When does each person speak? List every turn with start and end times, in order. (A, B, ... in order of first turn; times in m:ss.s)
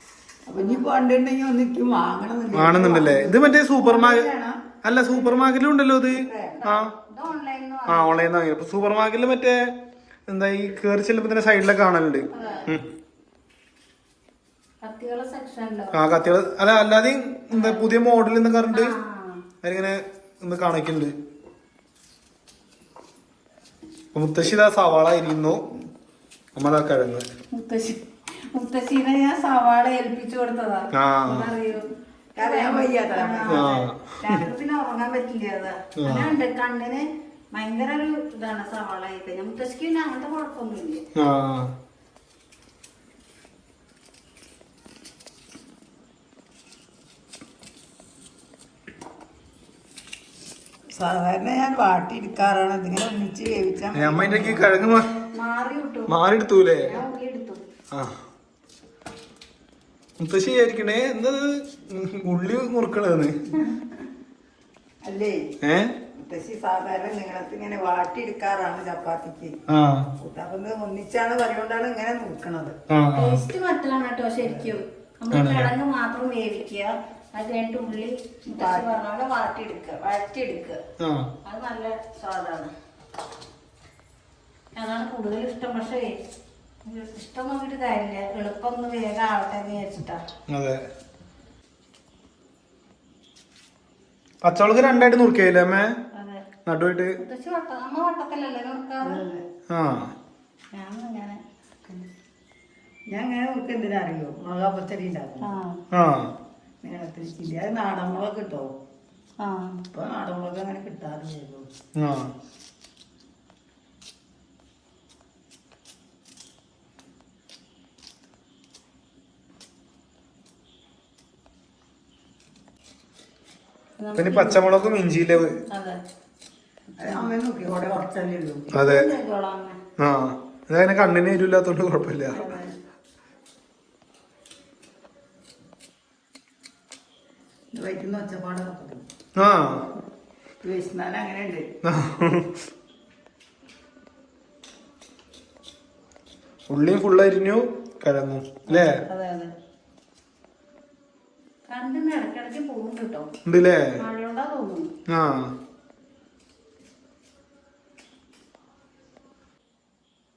0:00.5-0:04.5 A
0:00.6-0:00.8 B
0:02.5-0:04.3 C
0:04.8-0:06.9 C
0:05.1-0:05.5 A
0:06.2-0:06.6 A
0:06.6-0:08.2 B
0:07.9-0:09.7 C
0:10.3-0:12.8 C
0:12.3-0:12.7 B
0:12.4-0:12.6 A
0:14.8-0:16.0 B
0:15.9-0:18.9 C
0:17.5-0:17.8 B
0:18.7-0:19.4 B
0:19.6-0:21.1 C
0:24.1-0:25.6 C
0:26.6-0:27.2 C
0:27.5-0:28.0 B
0:28.5-0:31.8 B
0:30.9-0:31.5 C
0:32.4-0:33.6 A
0:32.4-0:41.0 B
0:33.5-0:34.4 C
0:36.0-0:36.3 C
0:41.2-0:41.7 C
0:50.9-0:54.7 A
0:53.9-0:55.1 C
0:55.3-0:56.1 B
0:56.1-0:56.9 C
0:56.8-0:57.6 B
0:57.9-0:58.2 C
1:00.2-1:03.3 C
1:05.0-1:05.4 A
1:05.6-1:05.9 C
1:06.2-1:09.6 A
1:09.7-1:10.1 C
1:10.2-1:12.7 A
1:12.9-1:13.4 C
1:13.2-1:20.8 B
1:15.3-1:15.7 C
1:18.5-1:18.9 A
1:21.0-1:21.3 C
1:21.4-1:22.7 B
1:24.8-1:26.1 B
1:26.8-1:30.2 B
1:30.5-1:30.8 C
1:34.4-1:35.9 C
1:36.1-1:36.4 B
1:36.6-1:37.2 C
1:37.2-1:39.2 B
1:39.0-1:39.4 A
1:39.7-1:40.1 C
1:40.7-1:42.1 B
1:43.1-1:45.5 A
1:45.4-1:45.8 B
1:45.9-1:46.3 C
1:46.8-1:48.7 A
1:49.4-1:49.8 B
1:49.9-1:51.7 A
1:52.0-1:52.3 C
2:04.0-2:04.6 B
2:04.2-2:05.6 C
2:05.7-2:06.0 B
2:07.0-2:07.3 B
2:07.0-2:08.7 A
2:08.7-2:09.1 C
2:08.7-2:09.8 B
2:10.0-2:12.5 C
2:12.3-2:12.8 B
2:17.7-2:19.0 A
2:19.4-2:19.8 C
2:20.6-2:21.7 A
2:21.8-2:22.5 C
2:26.7-2:29.0 C
2:28.7-2:29.5 B
2:31.7-2:33.3 B
2:33.4-2:34.0 C
2:34.0-2:34.9 B
2:35.1-2:35.5 C